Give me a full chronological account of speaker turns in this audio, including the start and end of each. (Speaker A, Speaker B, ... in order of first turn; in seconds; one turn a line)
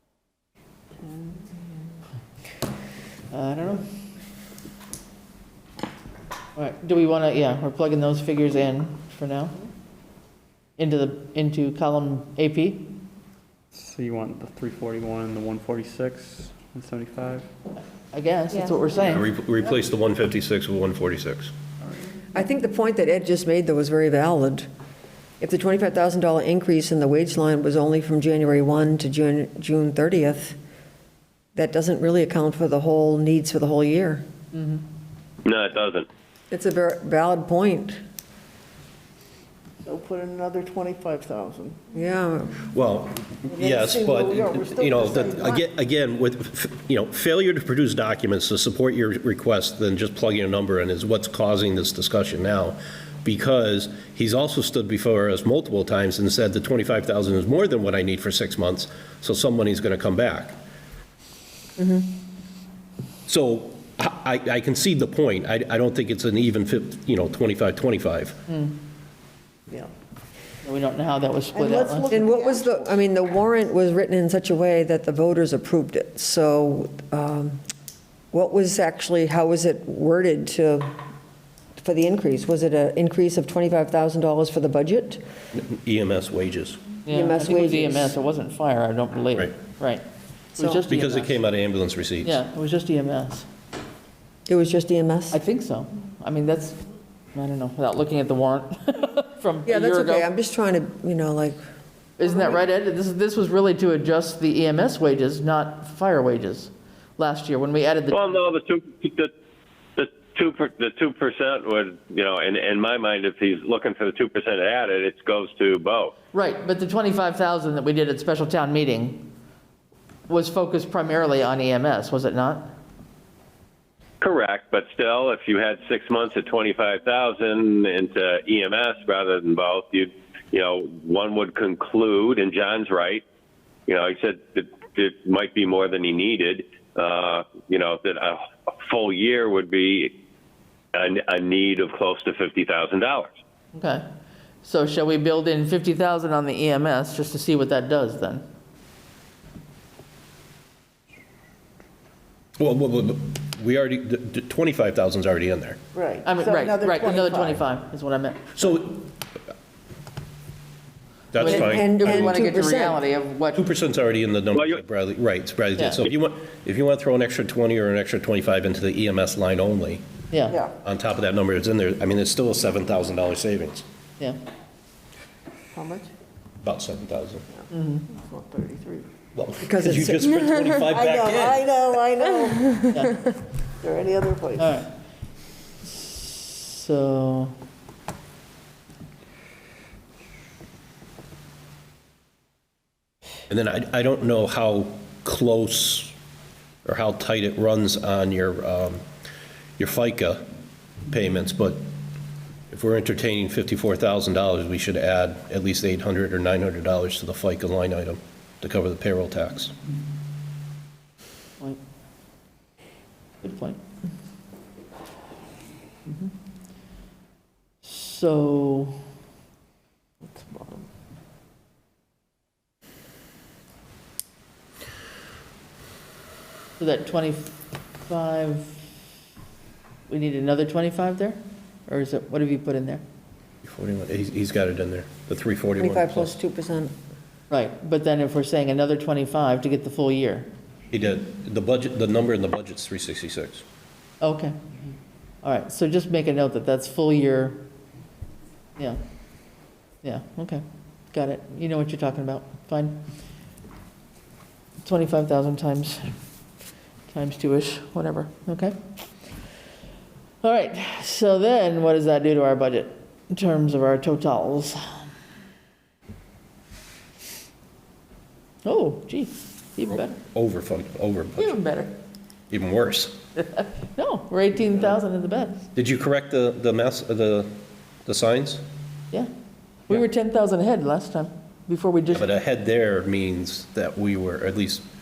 Speaker A: 3.3-3.8
Speaker A: 6.5-9.5
Speaker A: 10.8-13.0
Speaker B: 13.7-17.5
Speaker A: 17.8-19.2
Speaker C: 19.1-21.5
Speaker D: 22.3-24.7
Speaker D: 25.4-30.6
Speaker D: 31.5-34.2
Speaker A: 34.5-34.8
Speaker E: 35.4-36.1
Speaker D: 36.5-38.0
Speaker F: 39.8-41.8
Speaker D: 41.9-42.7
Speaker C: 42.7-60.6
Speaker D: 43.5-44.3
Speaker F: 44.2-45.5
Speaker D: 61.8-62.1
Speaker C: 63.3-68.4
Speaker A: 68.5-68.8
Speaker A: 70.6-72.1
Speaker F: 71.5-72.9
Speaker D: 72.1-77.6
Speaker D: 78.3-80.9
Speaker D: 81.8-85.2
Speaker C: 85.5-86.9
Speaker A: 87.0-90.0
Speaker D: 87.1-88.1
Speaker A: 90.5-91.4
Speaker C: 90.9-92.4
Speaker A: 92.2-93.5
Speaker D: 94.5-95.4
Speaker A: 95.3-96.8
Speaker A: 97.3-100.3
Speaker D: 99.7-101.6
Speaker A: 102.2-108.5
Speaker E: 108.1-109.3
Speaker E: 110.0-116.1
Speaker A: 116.3-119.3
Speaker A: 120.3-122.7
Speaker E: 124.2-133.2
Speaker E: 133.9-140.1
Speaker E: 140.9-143.3
Speaker A: 143.7-144.0
Speaker A: 144.6-148.4
Speaker C: 152.6-155.8
Speaker F: 155.9-157.6
Speaker A: 156.2-158.5
Speaker C: 158.6-159.0
Speaker C: 161.3-162.4
Speaker A: 161.4-163.7
Speaker D: 161.4-163.0
Speaker C: 163.5-170.1
Speaker E: 164.5-164.8
Speaker A: 165.8-166.0
Speaker A: 170.3-170.6
Speaker C: 170.8-173.8
Speaker F: 175.8-176.1
Speaker C: 176.6-177.4
Speaker A: 177.7-178.1
Speaker F: 178.1-179.1
Speaker C: 179.3-182.0
Speaker D: 179.6-183.0
Speaker F: 183.8-184.8
Speaker A: 184.6-184.9
Speaker A: 185.9-187.6
Speaker C: 193.5-196.1
Speaker C: 196.8-199.0
Speaker C: 199.8-200.4
Speaker C: 201.1-201.8
Speaker C: 202.7-209.7
Speaker A: 213.4-213.8
Speaker A: 217.8-219.0
Speaker F: 220.2-220.8
Speaker A: 226.8-228.8
Speaker A: 230.1-233.0
Speaker C: 233.6-236.3
Speaker D: 235.8-236.9
Speaker A: 237.5-240.5
Speaker C: 240.9-243.6
Speaker A: 244.2-244.6
Speaker A: 245.4-247.7
Speaker A: 250.0-253.0
Speaker A: 254.8-256.1
Speaker A: 257.1-258.8
Speaker A: 260.4-265.1
Speaker A: 268.6-270.2
Speaker C: 269.9-271.6
Speaker A: 271.4-271.9
Speaker C: 272.5-273.2
Speaker A: 273.4-275.6
Speaker C: 275.7-277.5
Speaker C: 278.1-278.6
Speaker A: 279.9-282.3
Speaker C: 282.1-284.9